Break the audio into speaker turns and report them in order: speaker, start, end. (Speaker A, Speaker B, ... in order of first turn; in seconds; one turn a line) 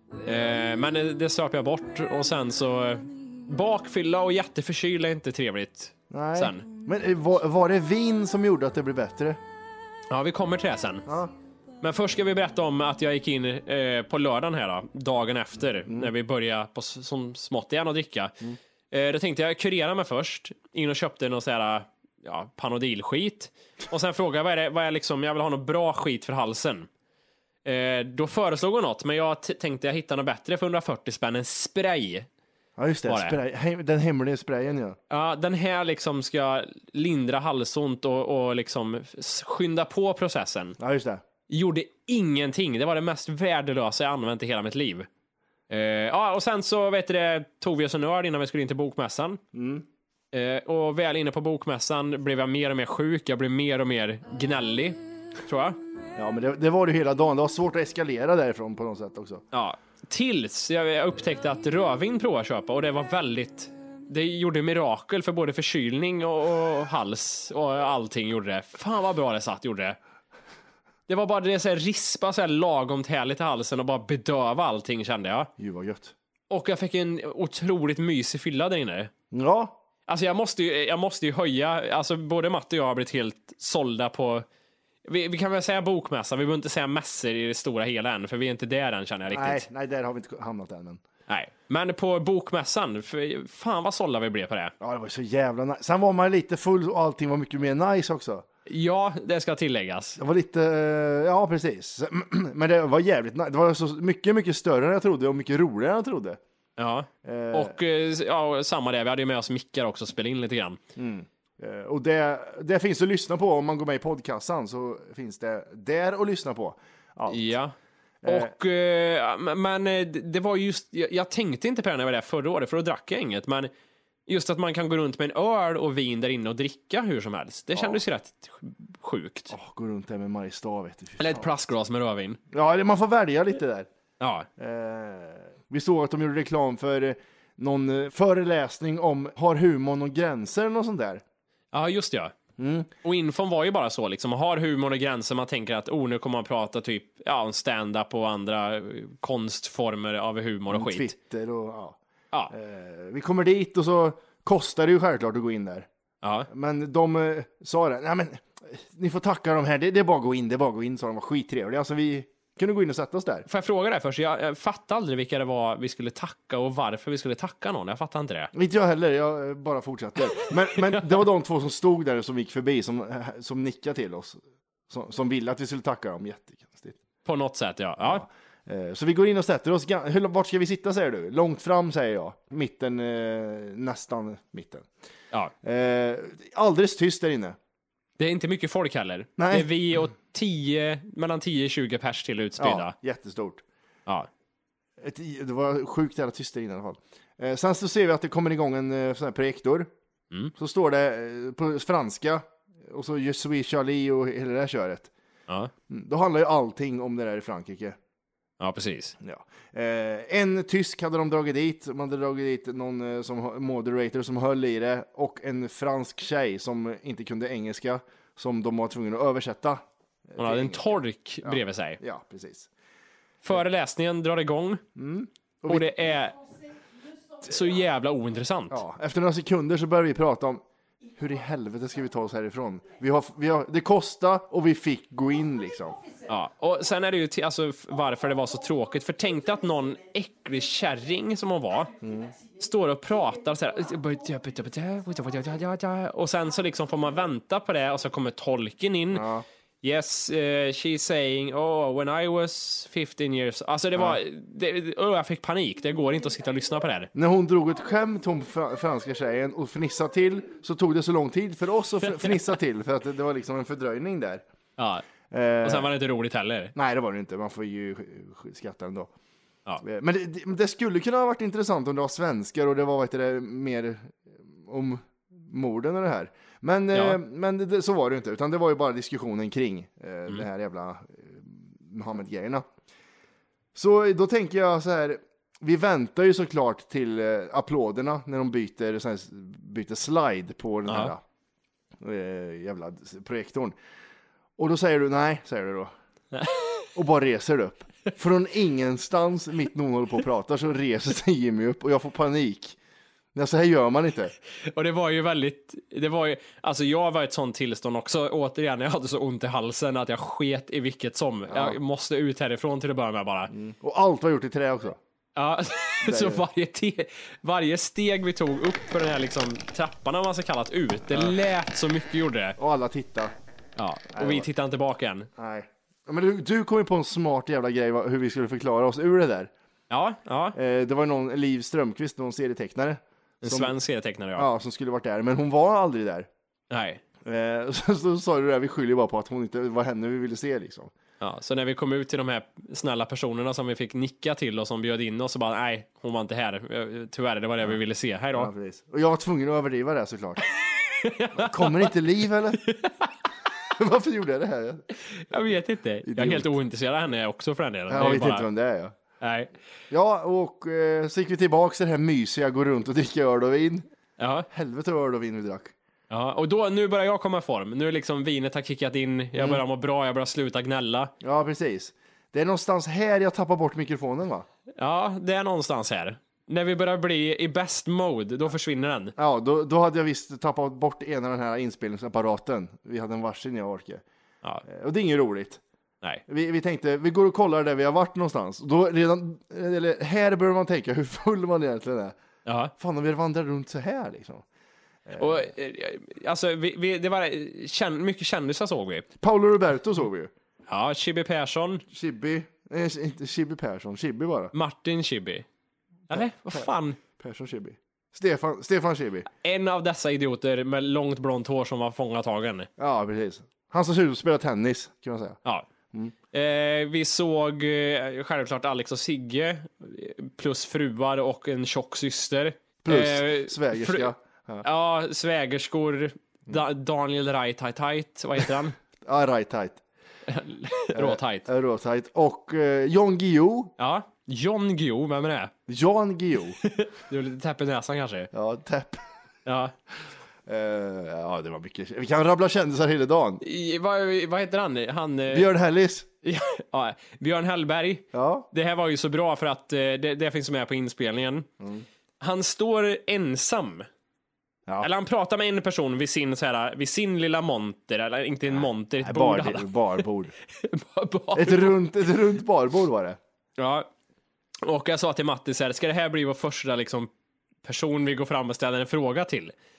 Speaker A: 0.3-6.7
Speaker B: 6.1-9.4
Speaker A: 10.1-11.1
Speaker B: 11.1-11.3
Speaker A: 11.8-18.4
Speaker A: 18.9-26.9
Speaker A: 27.6-32.3
Speaker B: 32.8-35.0
Speaker A: 33.1-33.4
Speaker A: 35.1-40.8
Speaker B: 40.8-41.2
Speaker A: 41.5-45.1
Speaker A: 45.7-49.4
Speaker B: 49.5-49.9
Speaker A: 50.3-55.8
Speaker B: 56.2-59.4
Speaker A: 59.5-70.0
Speaker A: 71.1-75.5
Speaker B: 75.6-76.1
Speaker A: 76.5-79.1
Speaker B: 79.3-79.8
Speaker A: 80.1-84.5
Speaker A: 85.0-89.7
Speaker B: 89.3-91.0
Speaker A: 91.3-94.7
Speaker B: 94.8-98.5
Speaker A: 98.7-100.2
Speaker B: 100.2-106.4
Speaker A: 106.8-110.8
Speaker B: 107.2-107.8
Speaker B: 111.0-117.5
Speaker A: 117.3-117.7
Speaker B: 118.2-118.5
Speaker A: 118.2-123.7
Speaker A: 124.3-129.5
Speaker B: 127.7-128.0
Speaker B: 129.5-131.5
Speaker A: 131.2-132.4
Speaker B: 132.5-133.9
Speaker A: 134.2-134.5
Speaker B: 134.6-141.2
Speaker A: 141.7-142.3
Speaker B: 142.6-142.9
Speaker A: 143.0-151.1
Speaker B: 150.7-152.0
Speaker B: 152.5-155.9
Speaker A: 156.2-156.5
Speaker B: 156.5-163.4
Speaker A: 163.5-168.5
Speaker B: 168.5-177.0
Speaker A: 170.3-171.1
Speaker A: 177.2-178.2
Speaker B: 178.0-184.9
Speaker B: 185.6-187.6
Speaker A: 188.2-192.9
Speaker B: 189.4-189.7
Speaker B: 192.6-193.6
Speaker B: 195.0-199.9
Speaker B: 200.6-205.1
Speaker B: 205.9-208.0
Speaker A: 208.6-209.2
Speaker B: 209.2-222.7
Speaker A: 220.4-222.0
Speaker A: 223.4-224.8
Speaker B: 225.0-225.9
Speaker A: 225.7-226.4
Speaker A: 227.4-228.8
Speaker B: 228.7-230.6
Speaker B: 231.2-236.0
Speaker A: 236.3-241.9
Speaker B: 242.0-242.3
Speaker A: 242.6-249.3
Speaker B: 249.1-249.4
Speaker A: 249.8-257.1
Speaker B: 257.1-264.4
Speaker A: 264.8-265.0
Speaker B: 265.3-265.9
Speaker A: 265.6-266.7
Speaker B: 266.8-269.1
Speaker B: 269.8-282.6
Speaker A: 276.9-277.2
Speaker B: 283.8-291.2
Speaker A: 290.9-291.1
Speaker B: 292.0-293.8
Speaker B: 294.6-295.9
Speaker B: 296.9-302.8
Speaker B: 303.4-304.3
Speaker A: 304.6-313.5
Speaker B: 311.5-311.8
Speaker B: 313.5-315.0
Speaker A: 315.4-322.6
Speaker B: 316.0-316.4
Speaker B: 321.1-321.4
Speaker B: 322.6-323.4
Speaker A: 323.8-325.3
Speaker B: 324.1-324.5
Speaker B: 325.4-329.5
Speaker A: 329.9-330.6
Speaker B: 330.6-333.7
Speaker A: 333.4-334.5
Speaker B: 334.4-336.3
Speaker A: 336.7-337.0
Speaker B: 337.2-340.9
Speaker A: 341.2-348.5
Speaker B: 348.3-350.4
Speaker A: 350.8-351.9
Speaker B: 351.4-352.6
Speaker A: 352.6-353.1
Speaker B: 353.7-354.9
Speaker A: 355.1-358.5
Speaker B: 356.1-356.5
Speaker B: 357.9-358.9
Speaker A: 359.2-359.5
Speaker B: 359.9-363.9
Speaker A: 364.2-364.5
Speaker B: 364.5-365.7
Speaker A: 366.1-371.1
Speaker B: 369.4-369.6
Speaker B: 371.2-374.5
Speaker A: 374.8-379.1
Speaker B: 379.2-384.0
Speaker B: 384.6-385.6
Speaker B: 386.3-392.2
Speaker A: 392.5-392.7
Speaker B: 392.8-394.4
Speaker B: 395.1-395.5
Speaker A: 395.2-399.1
Speaker B: 399.2-400.3
Speaker A: 400.7-401.8
Speaker B: 401.9-404.5
Speaker A: 404.5-405.5
Speaker A: 406.1-407.0
Speaker B: 406.1-409.3
Speaker A: 409.4-412.7
Speaker B: 412.8-415.4
Speaker A: 416.3-424.1
Speaker B: 422.8-424.6
Speaker A: 424.6-428.8
Speaker B: 429.0-429.8
Speaker A: 430.3-431.5
Speaker B: 430.9-433.7
Speaker A: 433.8-435.5
Speaker B: 435.7-436.6
Speaker A: 436.6-438.3
Speaker B: 438.3-439.1
Speaker A: 439.5-439.7
Speaker B: 440.5-443.4
Speaker A: 443.4-445.5
Speaker B: 445.3-446.1
Speaker A: 446.2-451.5
Speaker B: 448.1-448.5
Speaker B: 451.6-451.9
Speaker A: 452.2-453.9
Speaker A: 454.8-460.0
Speaker B: 458.5-460.3
Speaker A: 460.6-461.8
Speaker B: 461.3-463.2
Speaker A: 463.6-463.9
Speaker A: 464.6-467.1
Speaker A: 467.6-469.5